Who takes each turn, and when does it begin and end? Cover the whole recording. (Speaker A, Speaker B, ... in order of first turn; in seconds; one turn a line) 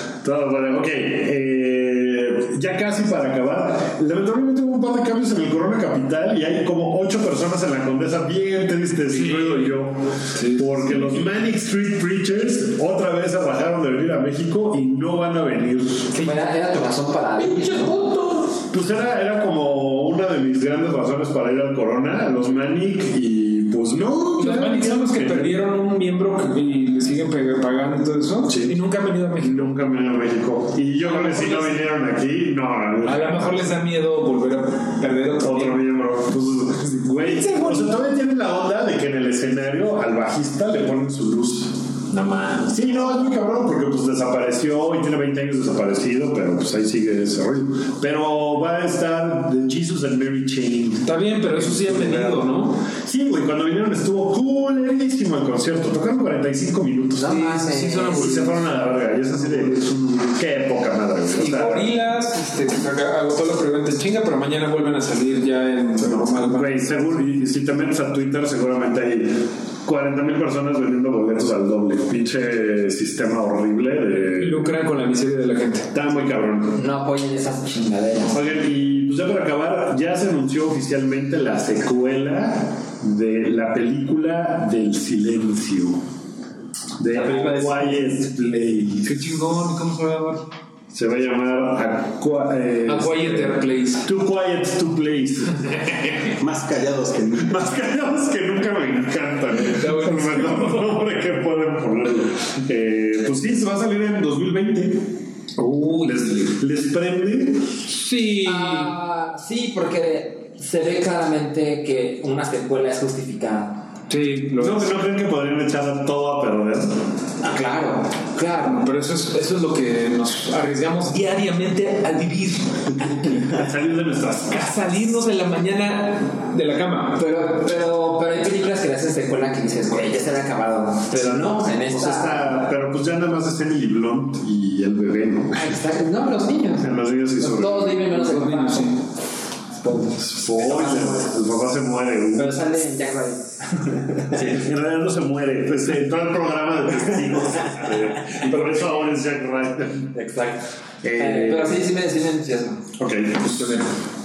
Speaker A: 0.2-16.1
Speaker B: 9.1-9.7
Speaker B: 10.3-11.2
Speaker B: 16.1-16.4
Speaker C: 16.2-17.9
Speaker B: 17.4-18.2
Speaker D: 17.8-18.4
Speaker A: 18.7-25.6
Speaker B: 24.4-29.7
Speaker A: 28.5-28.8
Speaker A: 29.4-33.7
Speaker B: 31.0-31.8
Speaker B: 33.0-35.8
Speaker A: 35.4-41.8
Speaker B: 37.2-37.9
Speaker C: 42.1-42.8
Speaker A: 42.7-57.4
Speaker B: 51.0-52.8
Speaker C: 57.2-58.5
Speaker B: 57.2-60.4
Speaker A: 58.1-59.8
Speaker A: 60.4-61.9
Speaker B: 61.4-67.2
Speaker A: 66.0-74.8
Speaker B: 74.4-75.9
Speaker A: 75.9-76.8
Speaker C: 76.7-78.4
Speaker A: 78.2-86.0
Speaker A: 87.0-89.3
Speaker B: 89.0-90.5
Speaker A: 90.9-95.9
Speaker B: 92.9-94.1
Speaker D: 96.4-97.6
Speaker A: 97.5-105.2
Speaker B: 99.7-100.9
Speaker B: 105.6-106.5
Speaker A: 106.0-107.8
Speaker B: 107.8-108.9
Speaker C: 108.5-113.8
Speaker B: 114.1-114.9
Speaker A: 114.6-117.0
Speaker C: 117.4-118.8
Speaker B: 118.6-123.6
Speaker A: 123.3-124.8
Speaker B: 124.5-127.3
Speaker C: 127.2-132.6
Speaker A: 131.1-135.8
Speaker C: 135.5-138.9
Speaker A: 136.8-138.1
Speaker B: 138.0-139.0
Speaker C: 139.9-141.3
Speaker A: 140.2-142.6
Speaker C: 142.3-144.3
Speaker A: 144.3-150.1
Speaker C: 150.1-150.6
Speaker A: 151.0-151.8
Speaker C: 151.2-152.8
Speaker A: 153.0-153.9